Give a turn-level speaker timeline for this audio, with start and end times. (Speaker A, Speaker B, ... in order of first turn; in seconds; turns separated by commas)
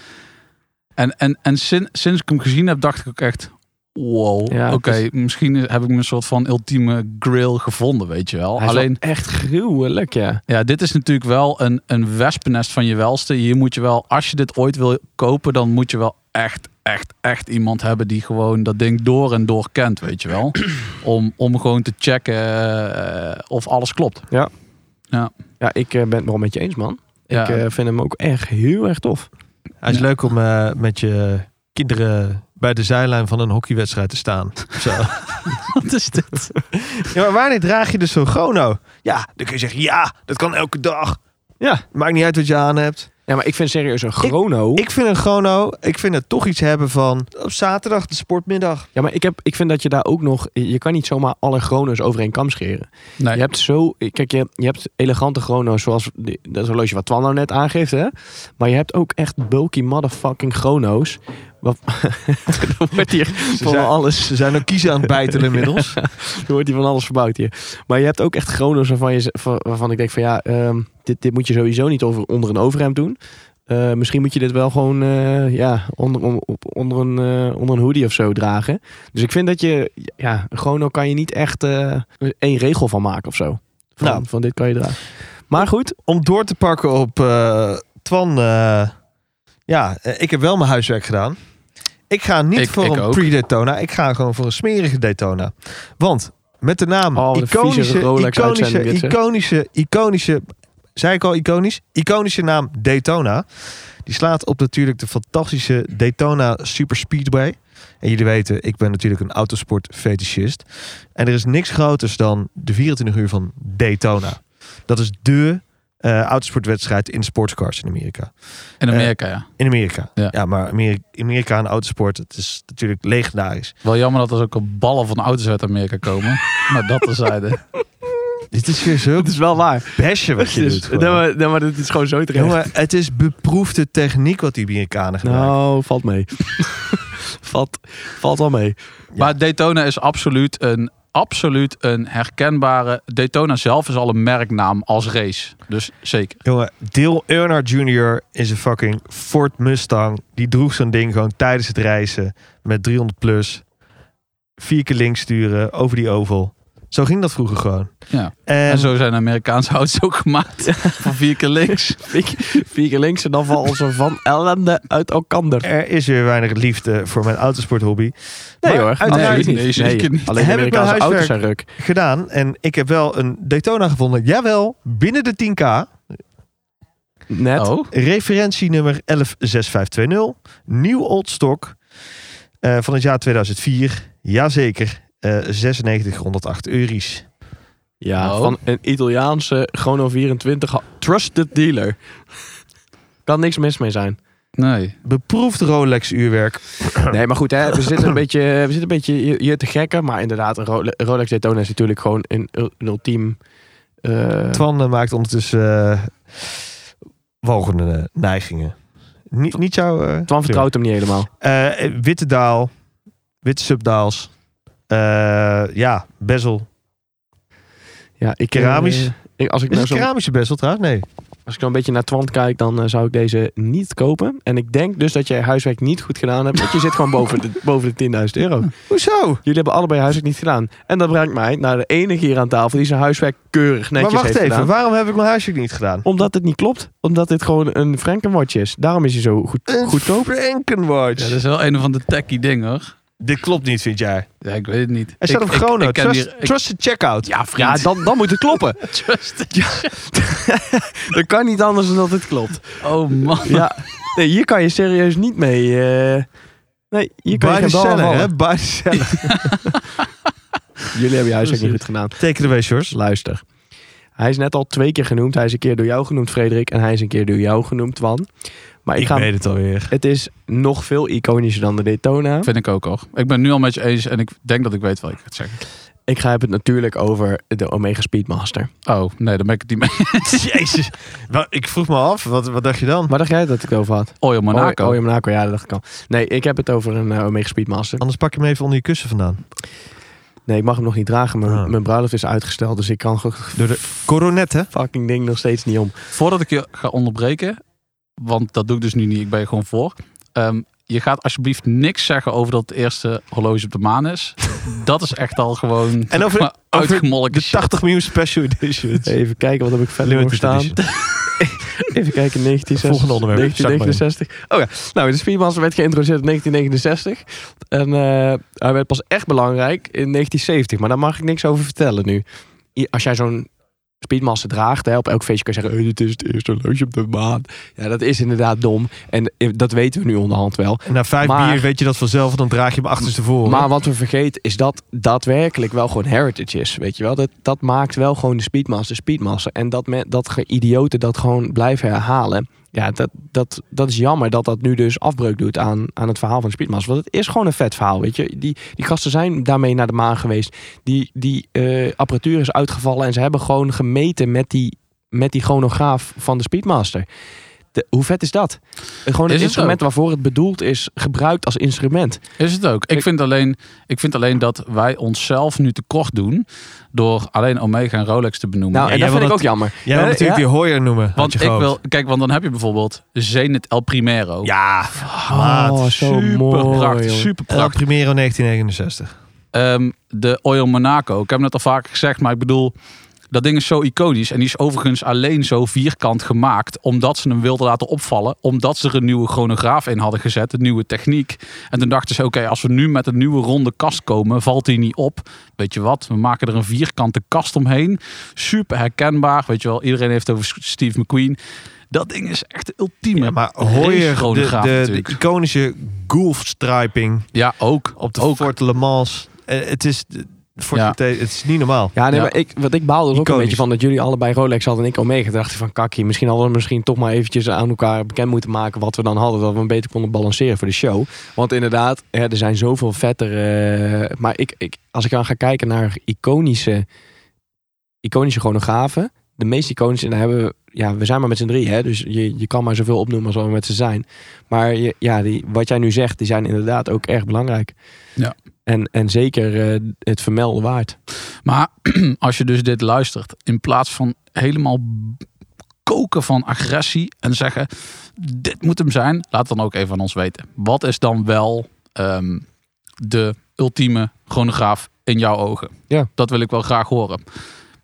Speaker A: 1.0-9.0, Speaker B: 4.5-5.0, Speaker B: 8.6-10.4, Speaker A: 10.5-24.3, Speaker B: 25.6-29.3, Speaker A: 27.3-27.6, Speaker C: 29.8-35.5, Speaker A: 35.6-36.5, Speaker C: 36.7-41.2, Speaker C: 41.9-43.1, Speaker B: 43.3-44.9, Speaker C: 44.2-48.9, Speaker B: 49.0-64.6, Speaker C: 63.5-66.0, Speaker B: 65.3-73.2, Speaker B: 73.7-86.0, Speaker C: 86.1-88.9, Speaker C: 89.7-91.4, Speaker C: 92.1-100.5, Speaker A: 92.6-93.2, Speaker B: 97.2-99.2, Speaker C: 101.0-123.7, Speaker A: 118.8-119.5, Speaker A: 123.8-127.6, Speaker C: 128.5-129.4, Speaker B: 129.2-132.7, Speaker C: 129.9-131.2, Speaker C: 132.3-135.5, Speaker B: 135.2-138.8, Speaker A: 139.2-146.4, Speaker C: 146.4-153.6, Speaker C: 154.6-158.9, Speaker A: 158.1-162.2, Speaker B: 160.7-161.1, Speaker B: 161.7-165.7, Speaker C: 165.6-169.7, Speaker B: 168.6-171.7, Speaker A: 169.1-170.3, Speaker C: 170.3-176.0, Speaker B: 177.3-177.7, Speaker A: 177.6-177.9, Speaker C: 177.9-181.8, Speaker C: 182.6-187.2, Speaker B: 188.0-192.0, Speaker A: 188.2-188.6, Speaker B: 193.3-194.2, Speaker A: 194.6-194.9, Speaker C: 195.0-197.2, Speaker B: 197.1-203.4, Speaker B: 204.0-204.6, Speaker C: 204.5-206.6, Speaker C: 207.4-208.8, Speaker C: 209.3-210.7, Speaker B: 210.3-211.3, Speaker C: 211.4-212.7, Speaker C: 213.4-214.3, Speaker C: 214.9-216.7, Speaker B: 218.2-220.1, Speaker C: 218.5-219.1, Speaker C: 219.7-221.1, Speaker B: 221.5-228.7, Speaker C: 228.9-229.4, Speaker B: 229.4-234.7, Speaker C: 234.0-236.1, Speaker B: 236.1-240.3, Speaker C: 239.7-241.4, Speaker A: 241.2-242.9, Speaker C: 243.2-244.3, Speaker A: 244.4-246.6, Speaker C: 245.2-247.3, Speaker A: 247.2-248.1, Speaker B: 247.6-248.9, Speaker A: 248.8-249.9, Speaker B: 249.5-252.8, Speaker A: 252.8-253.7, Speaker B: 253.4-256.3, Speaker B: 256.9-258.3, Speaker C: 257.3-259.5, Speaker A: 259.1-259.8, Speaker B: 260.9-262.2, Speaker C: 262.2-262.9, Speaker B: 262.9-263.4, Speaker B: 264.2-268.3, Speaker B: 268.9-269.3, Speaker C: 269.0-269.9, Speaker B: 269.9-272.5, Speaker A: 272.4-275.6, Speaker B: 276.1-278.7, Speaker A: 278.9-280.4, Speaker C: 280.2-283.1, Speaker B: 283.1-288.0, Speaker A: 284.2-285.0, Speaker C: 288.0-289.4, Speaker B: 290.5-294.0, Speaker C: 291.5-291.8, Speaker C: 293.6-294.7, Speaker B: 294.7-295.9, Speaker A: 296.1-297.6, Speaker A: 298.2-307.8, Speaker C: 306.1-309.1, Speaker B: 309.0-322.2, Speaker C: 310.0-310.8, Speaker C: 312.8-313.7, Speaker A: 313.4-314.0, Speaker B: 322.8-323.5, Speaker B: 324.0-331.7, Speaker C: 330.9-333.7, Speaker B: 333.4-357.1, Speaker B: 357.7-362.2, Speaker A: 359.3-359.8, Speaker A: 362.4-368.9, Speaker B: 368.7-370.4, Speaker C: 368.9-371.8, Speaker A: 371.2-374.5, Speaker C: 374.4-376.0, Speaker B: 375.1-377.3, Speaker A: 375.9-377.8, Speaker C: 377.5-379.1, Speaker A: 379.5-382.7, Speaker A: 383.3-401.4, Speaker A: 401.9-405.2, Speaker C: 403.2-407.3, Speaker A: 407.3-408.5, Speaker C: 408.0-411.9, Speaker B: 411.9-426.9, Speaker C: 413.1-413.6, Speaker B: 428.0-437.7, Speaker B: 438.7-441.0, Speaker A: 441.4-445.2, Speaker A: 445.9-452.4, Speaker A: 453.0-457.2